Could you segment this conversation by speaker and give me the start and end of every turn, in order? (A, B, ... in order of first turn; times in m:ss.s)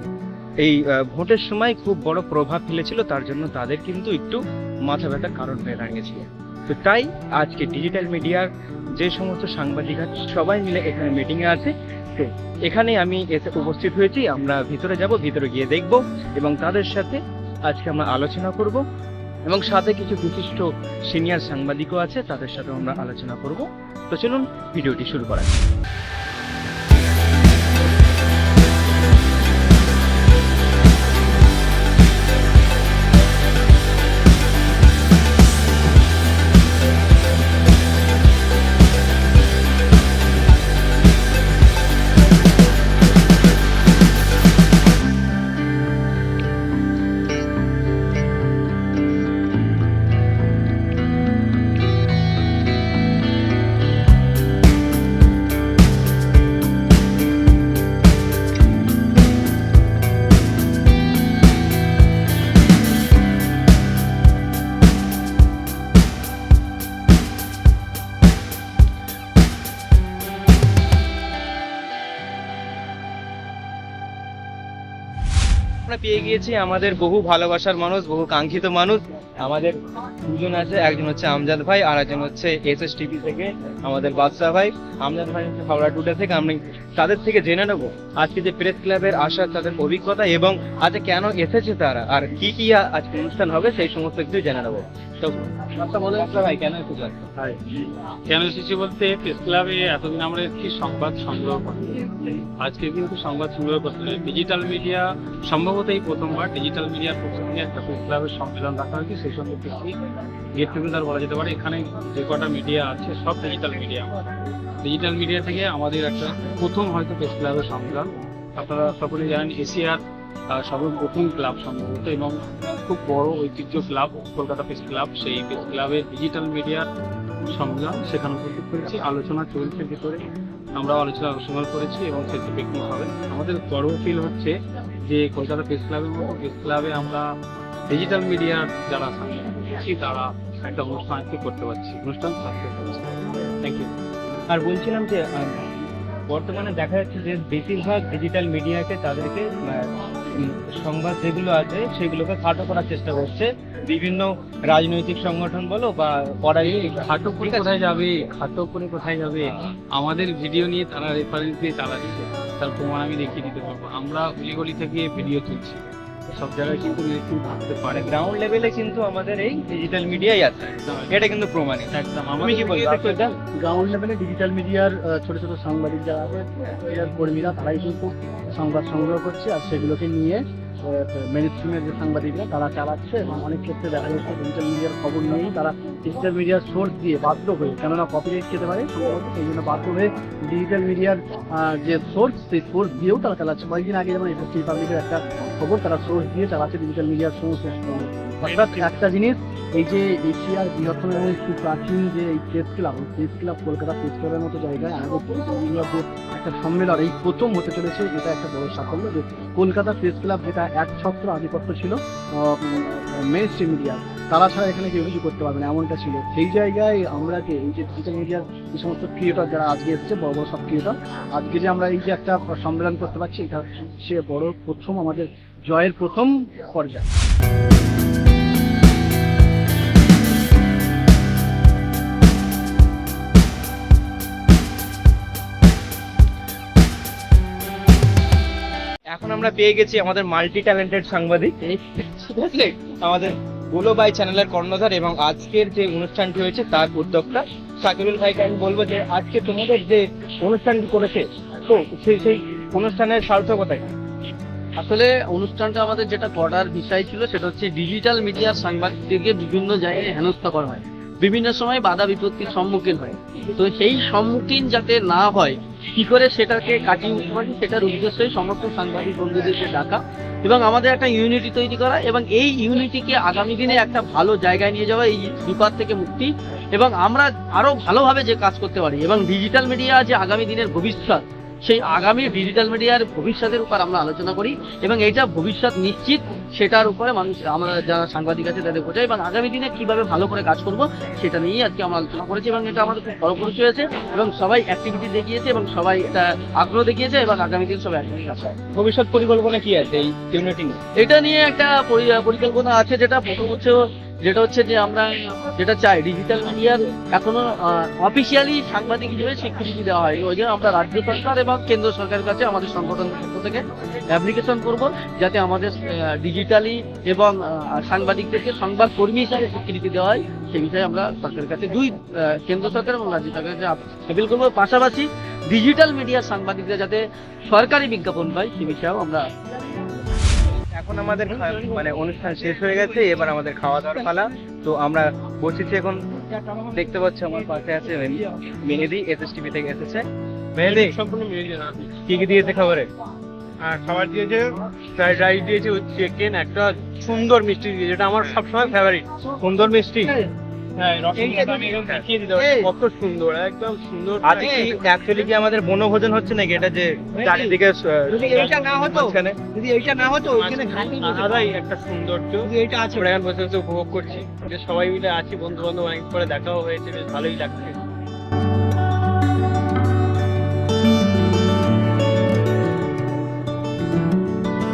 0:00.6-0:18.8 A
0:19.5-0:25.6 A
1:15.9-1:19.7 A
1:20.2-1:37.2 A
1:37.4-1:50.0 B
1:50.5-1:54.1 B
1:54.8-2:06.9 B
2:07.5-2:17.3 B
2:17.9-2:23.1 B
2:23.6-2:23.9 B
2:24.5-2:25.6 A
2:26.3-2:37.7 A
2:36.8-2:48.2 B
2:47.9-2:51.9 A
2:51.9-2:53.2 B
2:52.5-2:53.2 A
2:53.5-3:47.0 C
3:59.1-4:13.8 A
4:14.8-4:58.5 D
4:58.7-5:00.8 A
5:01.0-5:29.2 D
5:30.7-5:41.0 A
5:40.6-5:41.8 E
5:41.9-5:42.9 A
5:43.6-5:49.0 E
5:49.4-5:50.2 A
5:50.8-5:54.8 E
5:51.1-5:52.0 A
5:54.2-6:01.2 A
5:57.2-5:57.5 E
5:58.3-5:58.8 E
6:00.3-6:07.8 E